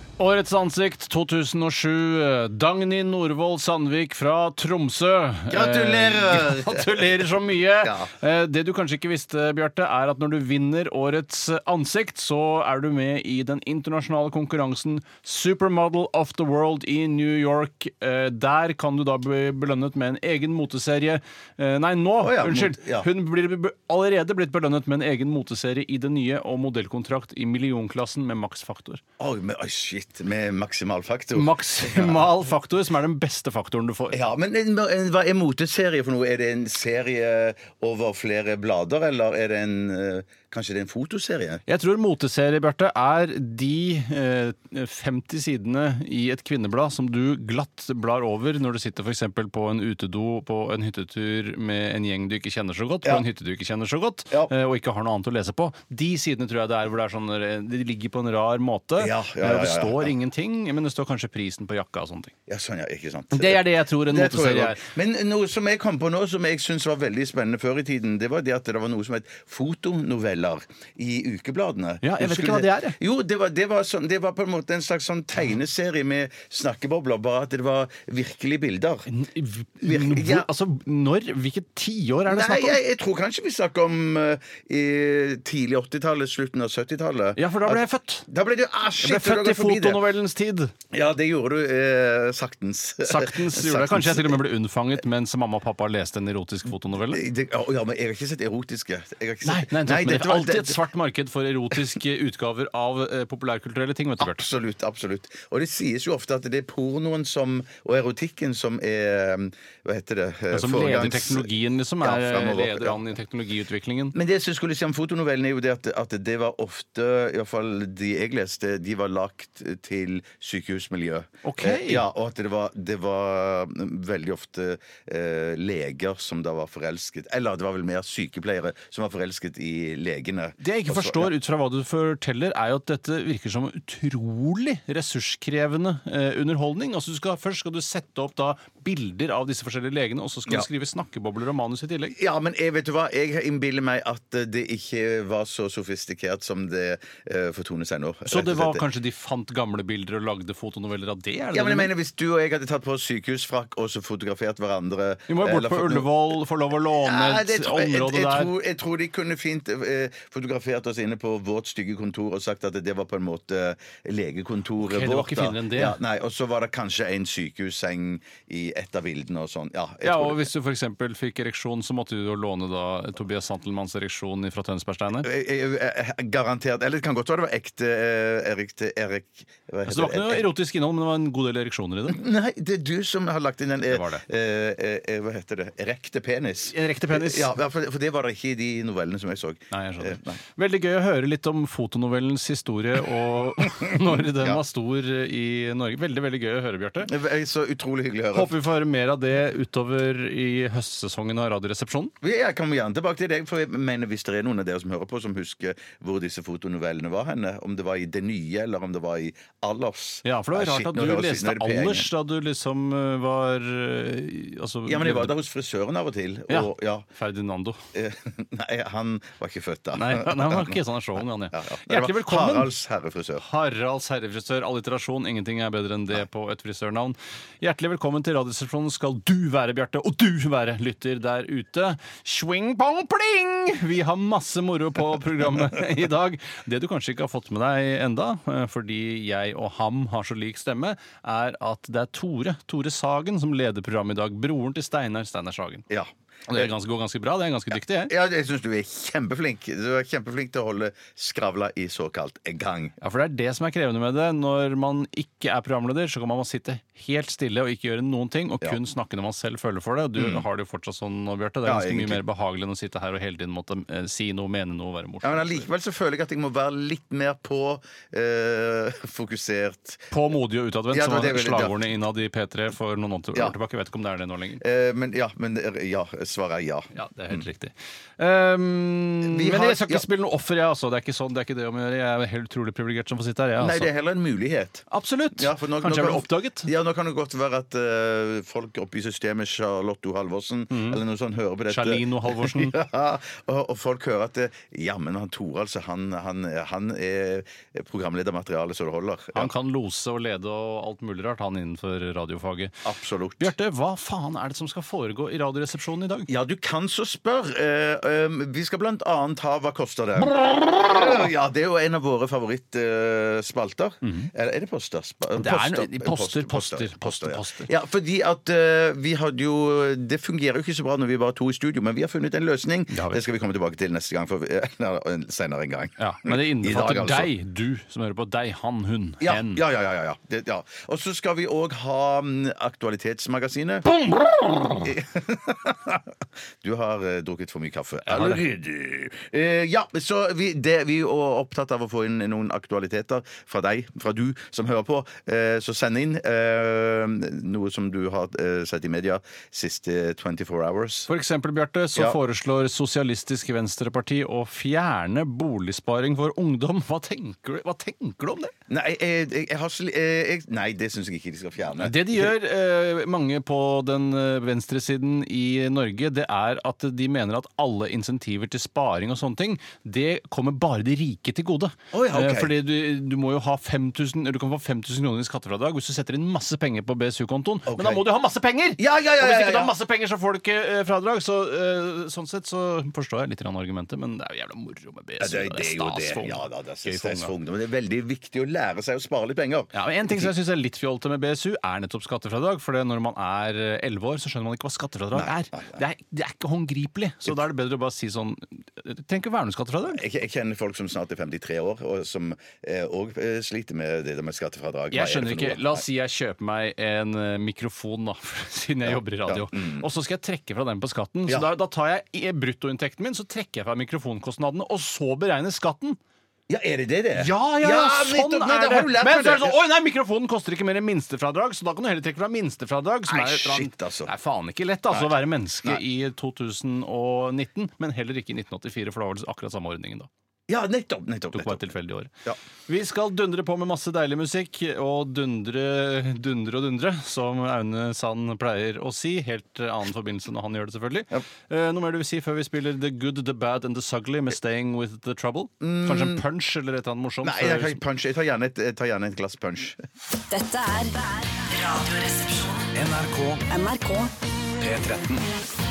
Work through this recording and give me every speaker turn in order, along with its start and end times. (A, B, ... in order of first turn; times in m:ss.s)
0:00.2-0:29.0 A
0:05.5-0:08.1 B
0:22.2-0:23.1 B
0:29.2-0:32.3 B
0:31.3-0:34.2 A
0:34.1-0:41.6 B
0:41.7-1:02.4 A
0:59.0-1:00.1 B
1:02.5-1:19.1 B
1:03.3-1:04.9 A
1:12.0-1:13.0 A
1:19.1-1:22.8 A
1:19.8-1:20.5 B
1:22.3-1:30.0 B
1:27.4-1:28.3 A
1:29.0-1:30.8 A
1:30.9-1:34.4 B
1:33.0-1:37.2 A
1:37.1-1:40.8 B
1:39.4-1:44.4 A
1:44.2-1:51.5 B
1:50.5-1:54.2 A
1:52.0-1:53.0 B
1:54.1-2:11.3 B
2:01.4-2:02.0 A
2:10.6-2:22.2 A
2:22.2-2:28.8 B
2:28.3-2:31.9 A
2:31.5-2:36.1 B
2:35.3-2:38.5 A
2:37.0-2:50.5 B
2:44.8-2:46.0 A
2:50.0-2:55.3 A
2:55.2-3:00.5 B
2:59.9-3:02.2 A
3:02.1-3:10.4 B
3:03.9-3:04.2 A
3:06.7-3:07.5 A
3:09.7-3:17.1 A
3:13.6-3:14.6 B
3:17.0-3:18.5 B
3:18.3-3:22.1 A
3:22.2-3:32.1 B
3:30.2-3:35.3 A
3:34.9-3:37.1 B
3:36.5-3:37.8 A
3:37.9-3:40.8 B
3:40.0-3:42.7 A
3:41.5-3:43.4 B
3:43.4-4:05.9 A
4:05.9-4:06.7 B
4:06.5-4:08.1 A
4:08.1-4:13.0 B
4:13.0-4:25.7 A
4:20.2-4:20.4 B
4:21.6-4:22.2 B
4:25.2-4:30.1 B
4:30.1-4:34.6 A
4:30.9-4:31.8 B
4:34.6-4:37.4 B
4:36.9-4:43.9 A
4:39.2-4:40.1 B
4:43.6-4:59.5 B
4:44.9-4:46.7 A
4:50.7-4:51.0 A
4:51.7-4:52.8 A
4:59.3-5:02.8 A
5:02.8-5:03.5 B
5:03.4-5:06.3 A
5:06.3-5:27.3 B
5:14.0-5:14.3 A
5:15.4-5:17.7 A
5:22.9-5:23.2 A
5:26.0-5:29.6 A
5:29.2-5:34.0 B
5:34.8-5:51.1 B
5:38.1-5:38.4 A
5:51.1-5:58.5 A
5:58.7-6:02.3 B
6:01.8-6:27.3 A
6:11.9-6:12.5 B
6:17.7-6:18.0 B
6:18.8-6:19.7 B
6:25.2-6:30.3 B
6:29.7-6:40.0 A
6:35.1-6:35.8 B
6:39.9-6:45.8 B
6:44.9-6:56.0 A
6:48.9-6:49.9 B
6:56.5-6:59.6 B
6:57.2-7:10.1 A
7:03.1-7:04.1 B
7:10.5-7:11.6 B
7:11.4-7:12.1 A
7:12.7-7:27.8 A
7:25.6-7:26.2 B
7:27.2-7:29.8 B
7:30.3-7:32.7 C
7:32.7-7:33.4 A
7:33.5-7:34.1 C
7:34.6-7:35.2 A